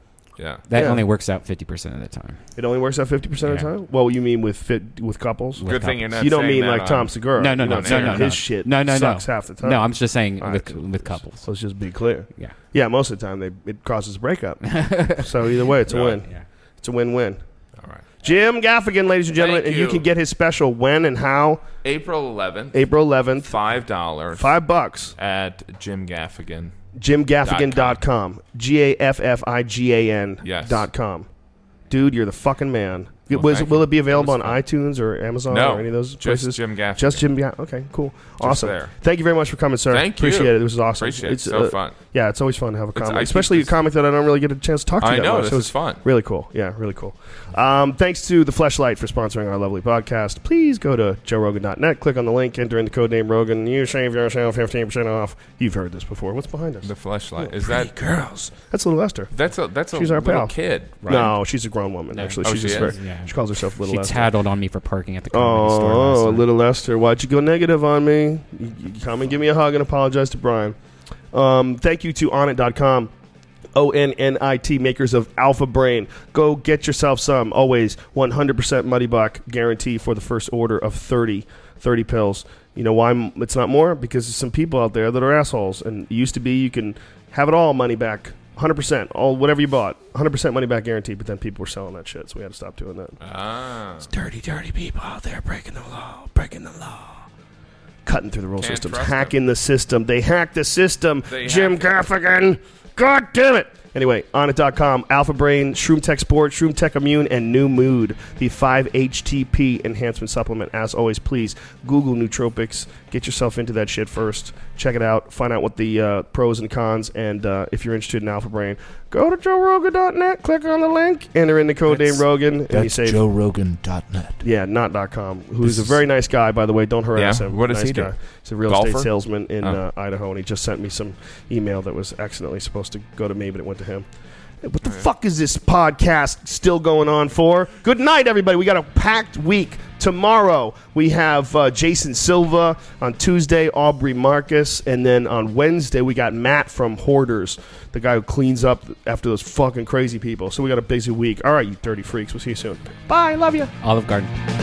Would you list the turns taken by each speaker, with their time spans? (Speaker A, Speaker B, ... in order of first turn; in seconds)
Speaker A: 0.4-0.6, 5.7-8.4, 15.9-16.2, 17.8-18.1, 19.3-20.1, 21.8-22.9, 23.4-24.6, 25.2-26.9, 27.4-28.0, 30.4-30.9, 33.3-34.6, 35.5-37.2, 38.4-38.9, 39.9-42.0, 43.0-43.7, 45.0-46.0, 56.8-57.9, 59.3-61.4, 62.4-62.9, 93.2-94.1, 98.6-99.3, 101.3-102.1, 121.9-124.4, 125.6-125.9, 127.2-128.1, 128.7-129.1, 134.8-135.1
Speaker B: 0.7-2.4, 5.6-6.1, 7.4-11.5, 14.7-15.5, 62.1-66.5, 153.8-154.3
Speaker C: 0.7-1.0, 2.6-9.8, 10.4-16.3, 16.8-17.4, 18.2-21.6, 22.7-23.6, 24.4-25.1, 27.0-31.3, 31.9-59.3, 59.9-64.3, 65.3-70.8, 71.3-73.1, 73.8-93.2, 94.0-97.3, 98.0-123.2, 124.4-134.1, 134.6-153.7